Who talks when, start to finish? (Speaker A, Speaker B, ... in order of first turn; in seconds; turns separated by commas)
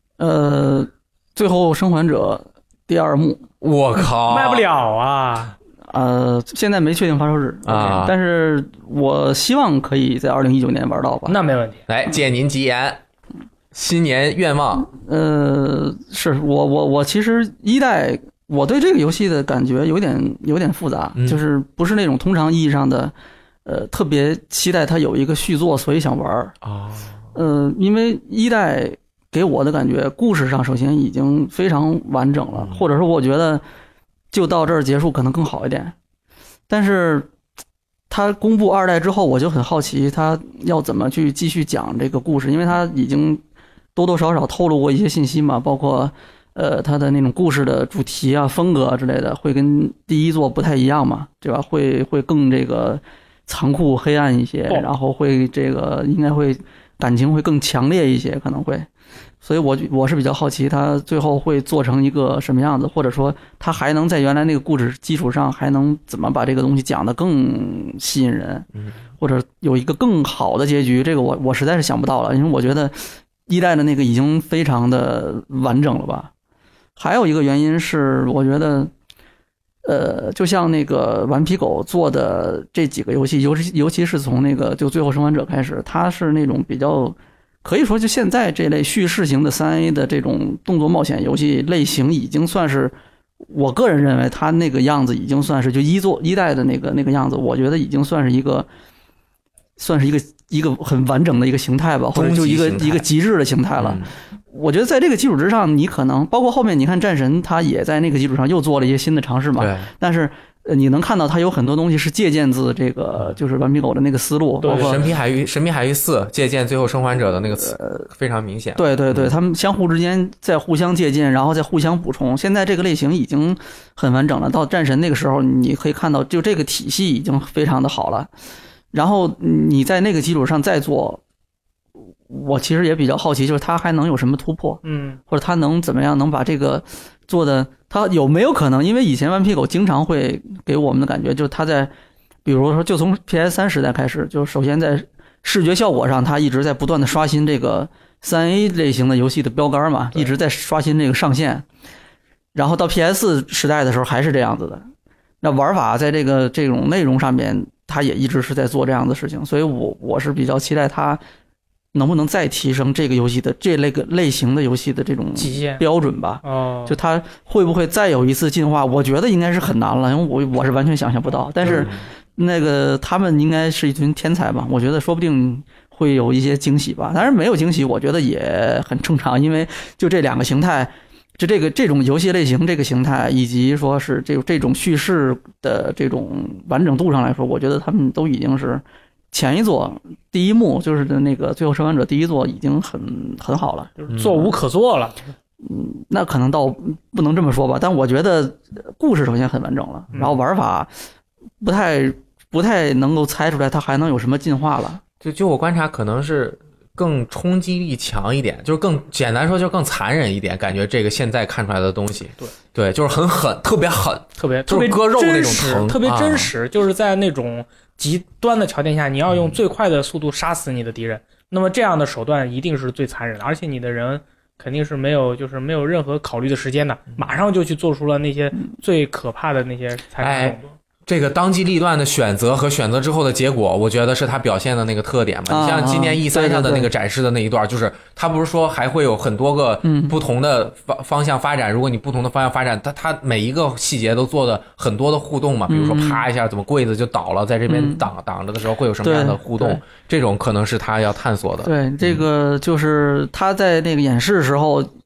Speaker A: 0.2-3.5, Speaker B: 3.6-4.7, Speaker C: 4.3-5.5, Speaker A: 5.9-11.4, Speaker B: 7.7-8.1, Speaker C: 11.3-11.8, Speaker B: 11.9-13.0, Speaker B: 13.7-14.9, Speaker A: 14.8-23.1, Speaker A: 23.6-26.5, Speaker B: 26.6-27.1, Speaker A: 27.3-33.6, Speaker A: 34.3-35.9, Speaker A: 36.7-37.3, Speaker A: 38.1-43.4, Speaker A: 43.9-58.9, Speaker A: 59.4-68.7, Speaker A: 69.2-76.3, Speaker A: 77.0-78.9, Speaker A: 79.8-98.7, Speaker A: 99.8-115.0, Speaker B: 102.1-103.0, Speaker B: 103.8-104.1, Speaker B: 109.6-109.9, Speaker C: 114.6-115.0, Speaker B: 114.6-119.3, Speaker A: 117.6-118.1, Speaker A: 118.8-128.3, Speaker A: 128.9-131.2, Speaker A: 132.3-141.9, Speaker C: 134.8-135.2, Speaker A: 142.4-151.6, Speaker A: 152.5-154.8, Speaker A: 155.4-161.2, Speaker A: 161.9-193.9, Speaker C: 165.3-165.8, Speaker C: 166.4-167.0, Speaker B: 171.6-172.0, Speaker C: 194.0-195.2, Speaker A: 195.6-200.9, Speaker A: 201.6-205.0, Speaker B: 205.2-216.5, Speaker C: 214.4-230.7, Speaker B: 219.3-219.6, Speaker B: 230.2-252.2, Speaker A: 235.5-236.9, Speaker A: 239.8-240.2, Speaker A: 245.7-246.2, Speaker A: 247.7-248.0, Speaker A: 249.0-249.8, Speaker A: 251.6-254.9